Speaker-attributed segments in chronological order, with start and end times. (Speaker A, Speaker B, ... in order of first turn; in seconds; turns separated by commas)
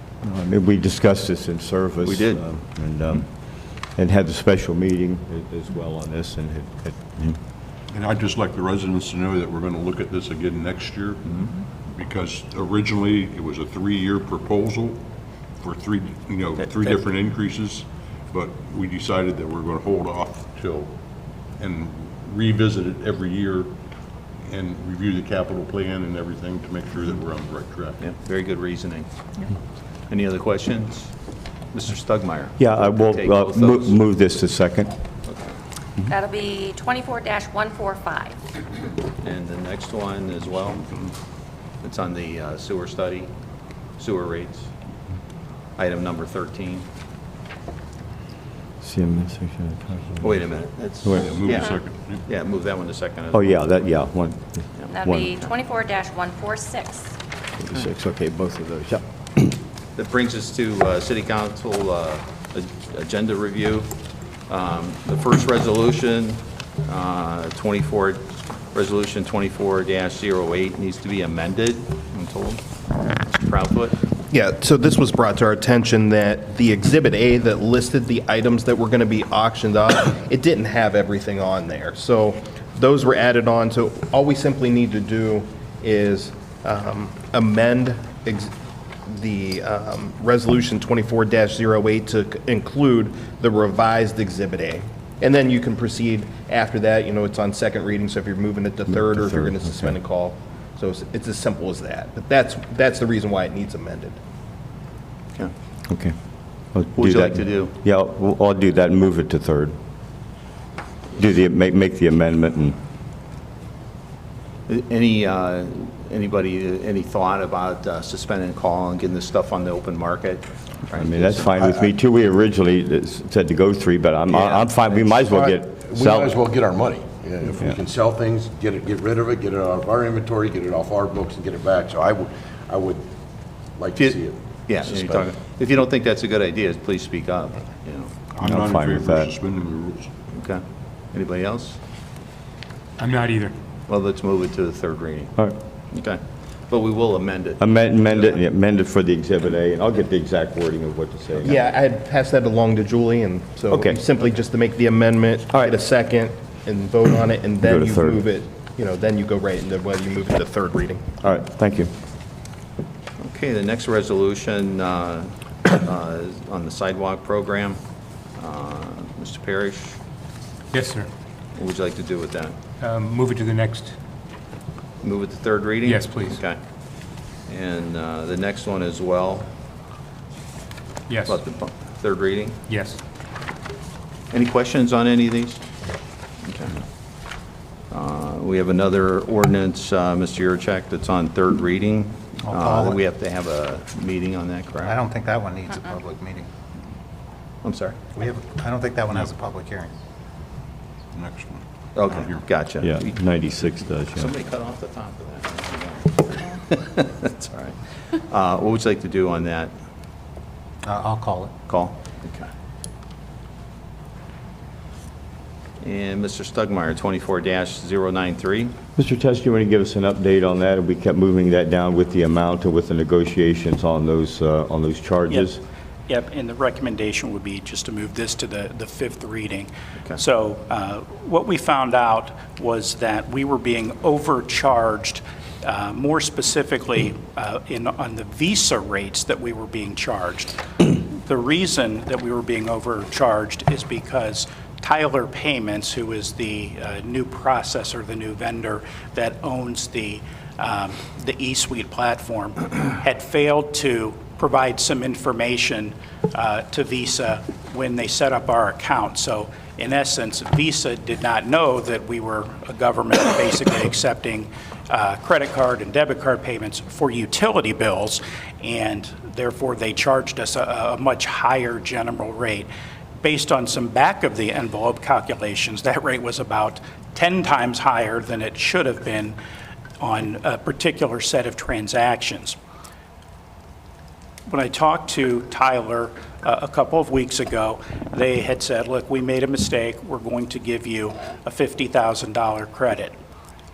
Speaker A: 0.2-7.4, Speaker B: 2.0-2.4, Speaker C: 7.9-15.0, Speaker B: 11.3-11.5, Speaker C: 15.6-20.9, Speaker C: 21.6-23.7, Speaker C: 24.5-28.0, Speaker B: 28.0-29.1, Speaker B: 30.1-31.1, Speaker B: 31.7-34.0, Speaker A: 32.6-34.9, Speaker B: 35.3-35.5, Speaker D: 36.1-38.3, Speaker B: 39.2-41.1, Speaker B: 41.8-43.3, Speaker B: 44.0-44.7, Speaker B: 45.8-46.9, Speaker A: 48.8-51.3, Speaker B: 50.2-53.9, Speaker C: 51.2-52.2, Speaker A: 53.3-55.3, Speaker B: 54.8-55.5, Speaker D: 54.9-57.1, Speaker A: 57.6-59.5, Speaker B: 60.0-63.9, Speaker B: 64.5-72.6, Speaker B: 73.4-74.0, Speaker E: 74.3-88.5, Speaker E: 89.1-104.2, Speaker A: 99.0-99.9, Speaker A: 105.9-106.1, Speaker A: 106.7-109.8, Speaker B: 106.9-107.7, Speaker A: 111.2-112.8, Speaker B: 114.7-121.5, Speaker A: 120.9-126.3, Speaker B: 124.3-125.0, Speaker F: 125.4-133.1, Speaker F: 133.8-135.3, Speaker B: 134.0-138.1, Speaker C: 138.3-140.1, Speaker A: 138.4-139.3, Speaker B: 140.3-140.6, Speaker B: 141.1-141.8, Speaker G: 143.0-143.5, Speaker B: 143.9-145.3, Speaker B: 145.9-148.4, Speaker A: 147.6-151.6, Speaker E: 151.4-161.0, Speaker A: 153.7-154.0, Speaker A: 157.6-158.2, Speaker A: 161.2-161.9, Speaker B: 163.2-167.8, Speaker B: 168.4-170.0, Speaker G: 170.7-171.1, Speaker B: 171.5-172.5, Speaker G: 172.8-173.9, Speaker B: 175.0-176.6, Speaker G: 175.8-176.4, Speaker B: 177.5-179.5, Speaker G: 181.1-181.4, Speaker B: 181.3-182.6, Speaker G: 182.7-183.0, Speaker B: 184.3-185.6, Speaker B: 186.5-186.8, Speaker B: 187.9-194.9, Speaker H: 192.5-192.8, Speaker H: 194.8-196.5, Speaker B: 197.6-198.0, Speaker H: 198.2-199.9, Speaker C: 201.1-202.5, Speaker B: 201.9-203.2, Speaker A: 202.8-204.3, Speaker B: 204.2-209.7, Speaker H: 210.9-211.5, Speaker B: 211.7-212.5, Speaker B: 215.8-218.8, Speaker A: 219.0-225.6, Speaker I: 226.1-279.4, Speaker I: 280.0-282.6, Speaker I: 284.5-293.1